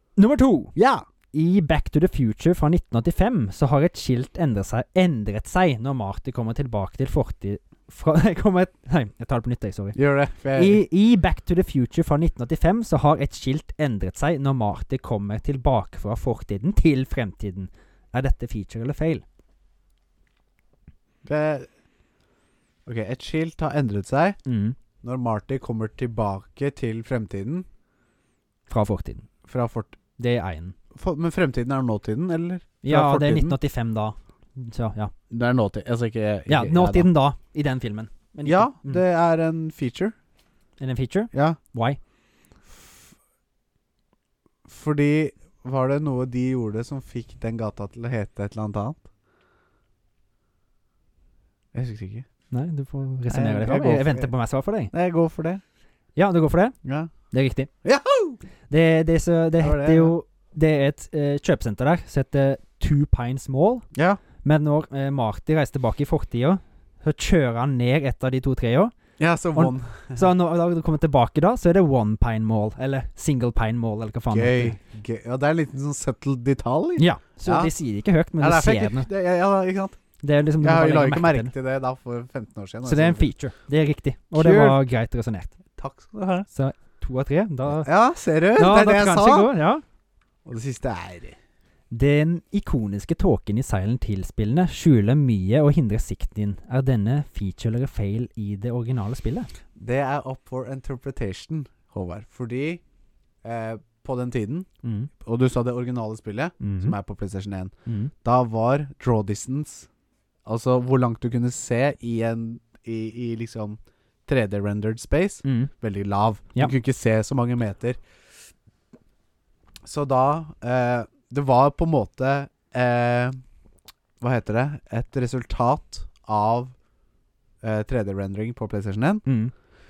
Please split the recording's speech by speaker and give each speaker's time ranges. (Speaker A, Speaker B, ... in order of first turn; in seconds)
Speaker A: 0.2-0.7, 1.3-10.0, 10.5-19.2, 24.4-24.8, 28.7-29.3, 30.2-30.7, 32.8-35.1, 36.5-39.0, 40.8-42.0, 52.5-54.9, 56.1-56.8, 57.3-57.7, 58.7-63.9, 64.4-68.9, 69.5-74.8, 77.0-79.1, 80.2-81.5, 82.8-85.5, 86.5-87.9, 88.5-89.8, 91.9-99.5, 104.8-105.1, 106.6-106.9, 107.8-108.1, 115.4-115.7, 129.2-129.5
Speaker B: 0.8-1.0, 9.9-10.8, 21.2-21.7, 22.9-24.4, 25.0-27.6, 29.5-30.0, 30.9-33.6, 35.3-37.1, 38.4-40.1, 41.3-41.6, 42.7-43.0, 44.6-49.0, 51.7-52.3, 53.3-54.3, 54.9-55.6, 56.8-57.1, 57.8-58.4, 59.6-60.1, 63.9-64.2, 69.2-70.3, 74.3-77.7, 78.4-80.0, 80.6-83.3, 84.3-84.8, 85.8-86.5, 87.8-89.5, 90.5-91.4, 99.8-102.8, 103.4-104.7, 105.2-107.7, 108.2-109.9, 110.5-118.0, 119.8-123.3, 124.2-126.7, 127.6-129.2